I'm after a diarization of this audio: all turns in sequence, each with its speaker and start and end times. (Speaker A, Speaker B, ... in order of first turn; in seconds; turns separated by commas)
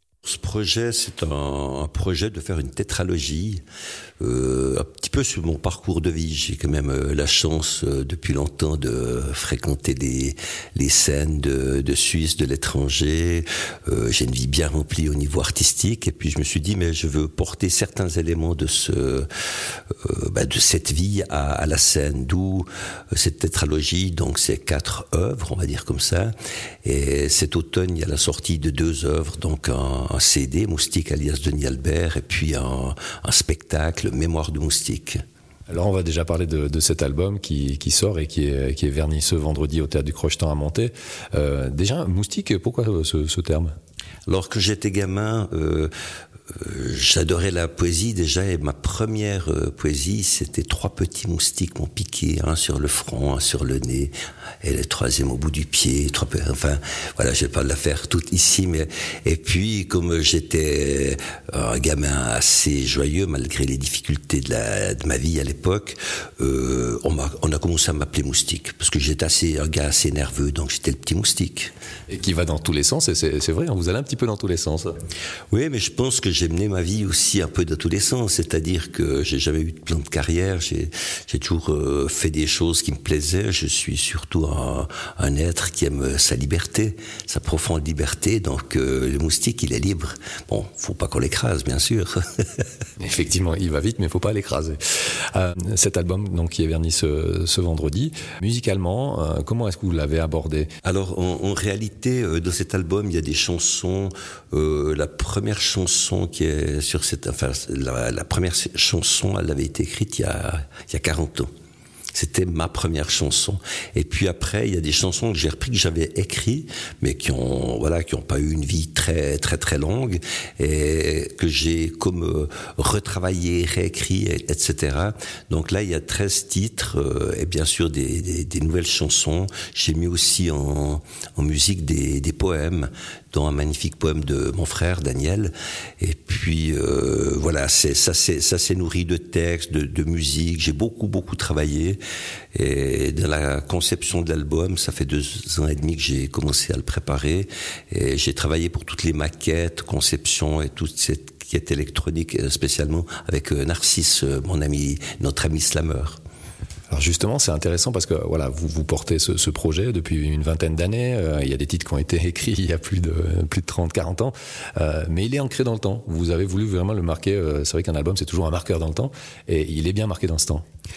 Speaker A: 0.2-3.6, Speaker A: 4.2-19.3, Speaker A: 20.0-26.3, Speaker A: 26.8-35.2, Speaker B: 35.7-43.7, Speaker A: 44.3-45.9, Speaker A: 46.5-71.7, Speaker B: 72.1-74.9, Speaker A: 75.5-92.6, Speaker B: 93.0-100.7, Speaker A: 100.8-111.5, Speaker A: 112.1-142.0, Speaker A: 142.6-156.2, Speaker B: 156.9-170.6